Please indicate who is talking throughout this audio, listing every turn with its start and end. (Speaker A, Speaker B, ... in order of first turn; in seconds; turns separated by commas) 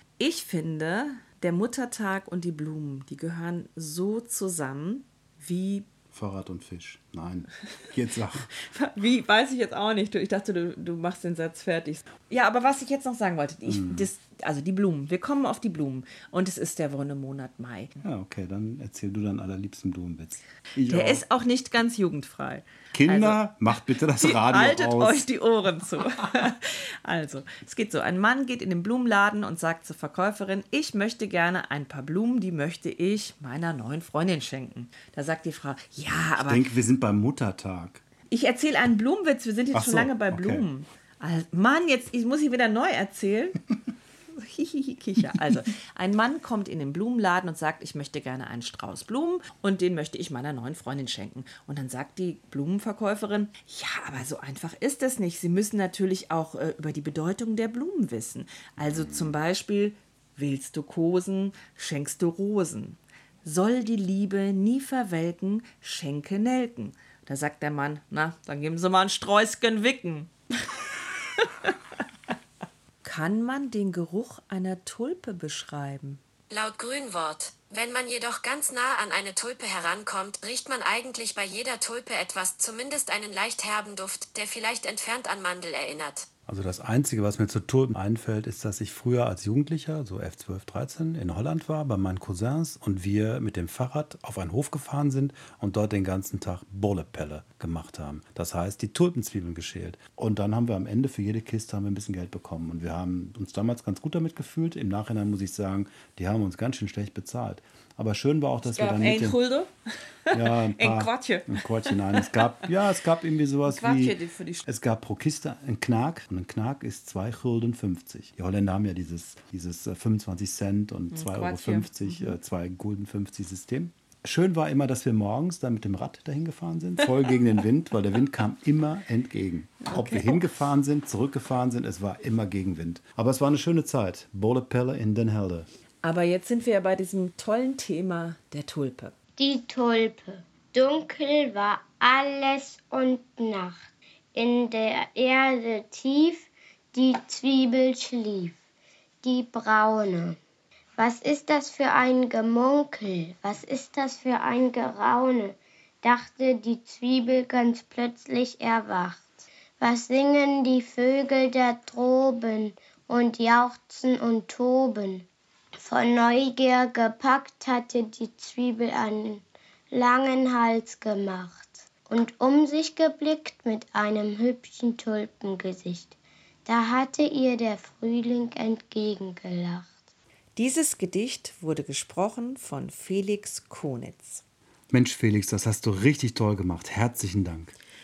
Speaker A: 0.2-5.9, Speaker B: 6.1-8.5, Speaker A: 8.5-17.9, Speaker B: 13.7-14.1, Speaker B: 18.0-21.2, Speaker A: 20.9-36.7, Speaker B: 22.9-25.2, Speaker B: 36.4-38.0, Speaker A: 38.3-43.6, Speaker B: 39.7-40.7, Speaker A: 44.3-71.8, Speaker B: 58.8-59.3, Speaker A: 73.0-76.2, Speaker C: 76.5-86.3, Speaker B: 86.5-109.4, Speaker A: 108.7-109.7, Speaker A: 110.3-112.4, Speaker B: 110.3-135.7, Speaker A: 113.7-114.7, Speaker A: 121.1-122.4, Speaker A: 129.8-130.4, Speaker A: 136.0-139.2, Speaker D: 139.4-148.6, Speaker D: 149.2-150.4, Speaker D: 151.0-176.2, Speaker D: 176.7-180.0, Speaker A: 180.6-184.4, Speaker B: 184.9-187.7